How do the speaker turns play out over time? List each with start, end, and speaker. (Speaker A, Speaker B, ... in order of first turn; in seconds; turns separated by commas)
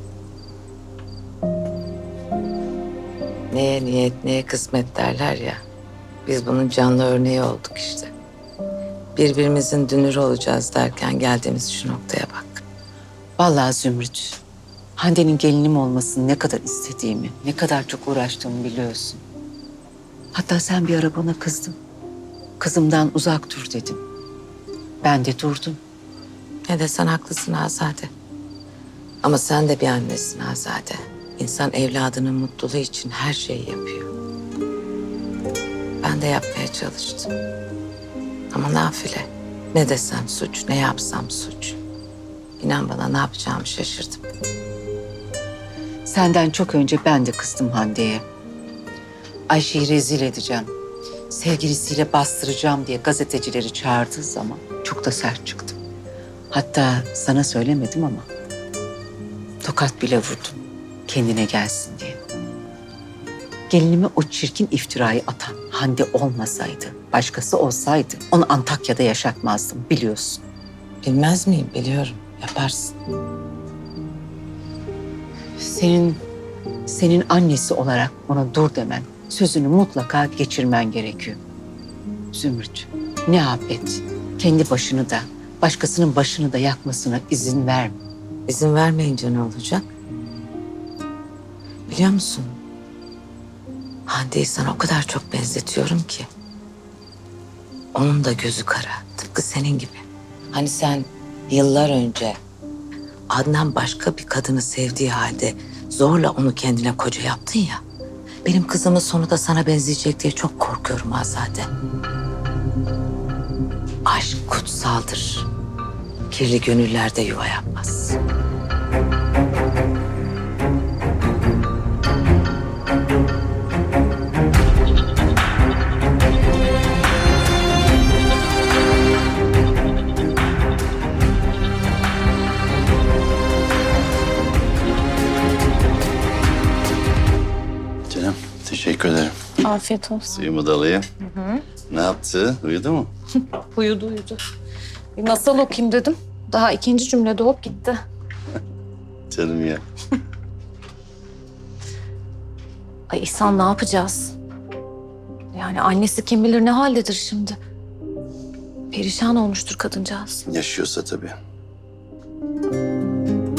Speaker A: 3.5-5.6, Speaker A: 6.2-8.1, Speaker A: 9.2-12.6, Speaker B: 13.4-14.4, Speaker B: 15.0-19.2, Speaker B: 20.3-21.7, Speaker B: 22.6-24.0, Speaker B: 25.0-25.8, Speaker A: 26.6-28.1, Speaker A: 29.2-34.1, Speaker A: 36.0-37.3, Speaker A: 38.5-41.8, Speaker A: 42.6-44.2, Speaker B: 46.0-48.2, Speaker B: 49.5-50.7, Speaker B: 51.3-55.8, Speaker B: 56.5-58.3, Speaker B: 59.6-62.2, Speaker B: 63.7-70.4, Speaker A: 71.0-72.9, Speaker B: 75.6-76.2, Speaker B: 76.9-81.4, Speaker B: 82.3-88.0, Speaker A: 88.5-89.9, Speaker A: 91.9-92.6, Speaker A: 94.1-96.3, Speaker A: 97.9-102.4, Speaker A: 103.3-107.8, Speaker A: 108.4-111.7, Speaker A: 114.0-115.5, Speaker A: 116.3-118.2, Speaker C: 138.1-139.3, Speaker D: 139.6-140.3, Speaker C: 140.3-141.1, Speaker C: 141.9-143.1, Speaker D: 143.7-144.4, Speaker D: 145.2-148.0, Speaker C: 149.3-149.8, Speaker D: 153.1-154.3, Speaker D: 155.5-157.6, Speaker D: 158.9-160.4, Speaker C: 160.4-161.4